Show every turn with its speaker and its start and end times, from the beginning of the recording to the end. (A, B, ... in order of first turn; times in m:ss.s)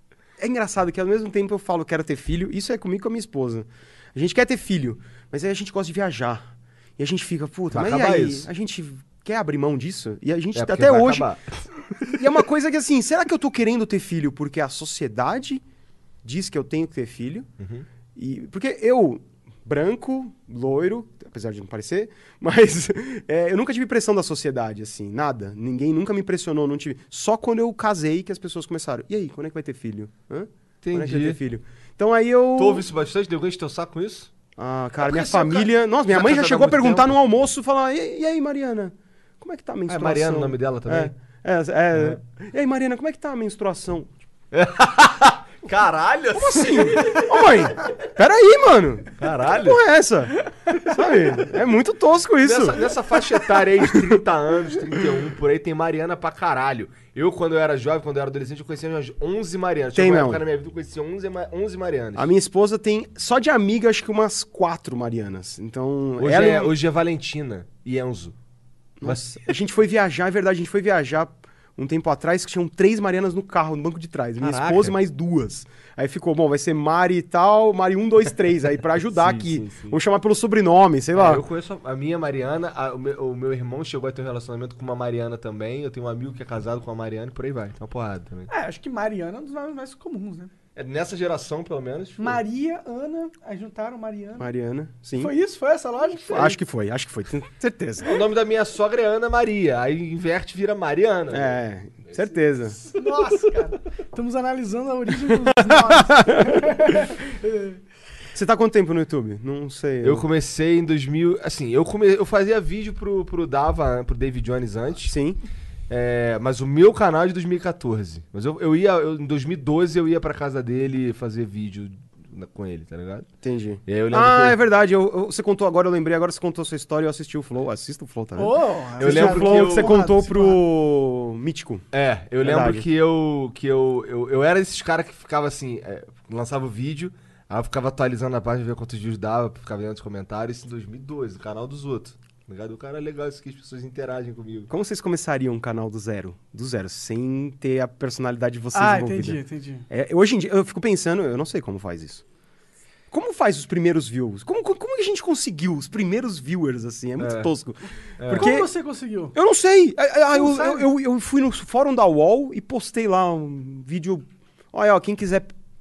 0:00.4-0:11.3 A
0:07.7-0:08.5 B
0:10.6-0:12.1 B
0:12.0-0:15.6 A
0:16.2-0:17.5 A
0:17.6-0:17.8 B
0:18.2-0:32.9 A
0:30.8-0:31.4 B
0:32.6-0:34.3 B
0:34.6-0:44.1 A
0:35.0-0:37.2 B
0:39.9-0:41.1 B
0:41.9-0:42.2 B
0:44.5-0:47.9 B
0:46.4-0:52.9 A
0:49.2-0:49.8 B
0:52.4-1:02.3 B
1:00.0-1:00.4 A
1:02.2-1:06.8 A
1:06.2-1:08.3 B
1:09.0-1:21.4 A
1:09.0-1:09.5 B
1:14.4-1:15.0 B
1:19.1-1:20.0 B
1:21.1-1:28.5 B
1:28.5-1:30.5 C
1:30.8-1:32.4 B
1:32.2-1:34.5 C
1:34.4-1:35.3 A
1:35.2-1:36.6 C
1:36.3-1:38.2 A
1:38.0-1:41.6 B
1:41.3-1:42.8 A
1:42.9-1:47.8 C
1:45.3-1:46.9 A
1:48.3-1:50.3 A
1:50.0-1:55.1 B
1:55.0-1:55.4 A
1:55.9-2:03.3 B
2:03.4-2:11.8 A
2:03.9-2:04.6 B
2:08.4-2:10.6 C
2:09.0-2:10.0 B
2:11.9-2:24.7 B
2:12.4-2:12.9 A
2:24.7-2:32.2 A
2:28.7-2:29.9 C
2:33.1-2:38.7 A
2:37.2-2:37.5 B
2:38.2-2:38.6 B
2:38.4-2:39.4 C
2:39.3-2:45.5 A
2:40.3-2:40.9 C